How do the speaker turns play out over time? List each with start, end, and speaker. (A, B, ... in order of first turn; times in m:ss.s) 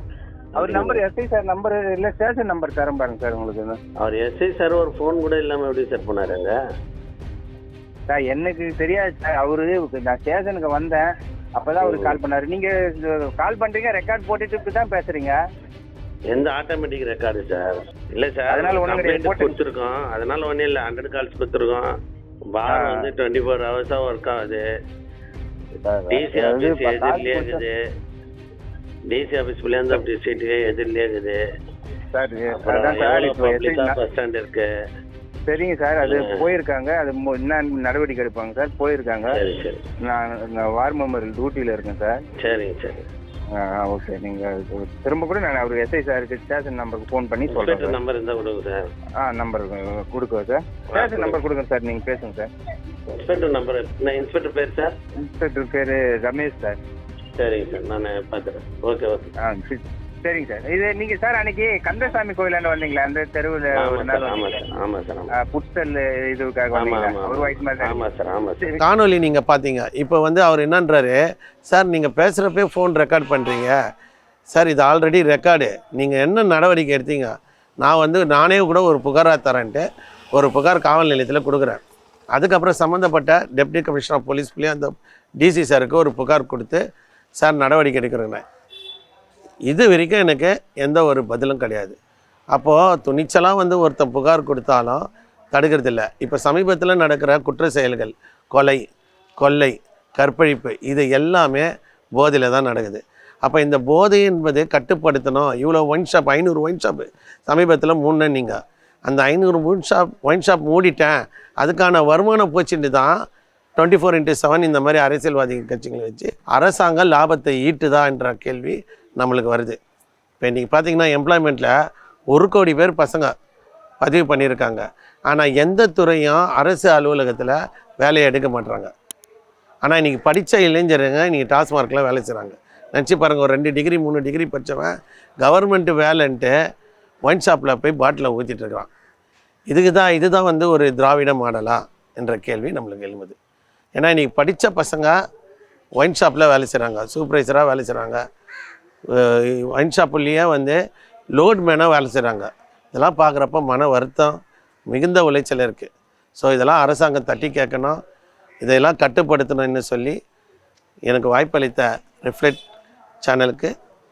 0:00.6-0:01.0 A
0:00.6-0:03.8 B
0:04.0-0:06.6 A
0:08.1-0:15.4 B
0:11.8-0:12.2 A
0:16.3-0:21.9 A
0:18.5-0:19.6 B
0:22.6-0:24.6 A
0:22.7-0:23.1 B
0:25.8-0:27.6 B
0:26.1-0:27.7 A
0:29.1-0:31.4 A
0:32.1-0:34.0 B
0:32.5-0:34.7 A
0:35.5-0:39.4 B
0:39.4-0:39.8 A
0:40.1-0:42.2 B
0:42.4-0:43.0 A
0:43.6-0:48.0 B
0:47.5-0:48.9 A
0:49.2-0:52.5 B
0:50.9-0:51.4 A
0:53.2-0:55.0 A
0:55.2-0:56.8 B
0:57.4-0:59.3 A
0:59.4-1:04.6 B
1:03.8-1:05.3 A
1:05.4-1:08.0 B
1:06.8-1:08.7 A
1:08.8-1:11.2 C
1:11.7-1:13.8 C
1:14.5-1:17.3 C
1:17.8-1:21.8 C
1:22.4-1:26.8 C
1:27.4-1:28.4 C
1:29.7-1:32.0 C
1:32.5-1:38.8 C
1:39.4-1:53.1 C
1:53.8-1:59.8 C
2:00.4-2:01.7 C
2:02.3-2:03.3 C
2:04.0-2:08.9 C
2:09.8-2:16.5 C
2:17.2-2:18.9 C
2:19.7-2:23.4 C
2:24.0-2:25.2 C
2:26.0-2:28.2 C
2:29.1-2:30.8 C
2:31.4-2:34.4 C
2:34.9-2:38.0 C
2:38.6-2:40.2 C
2:41.1-2:42.6 C
2:43.2-2:43.7 C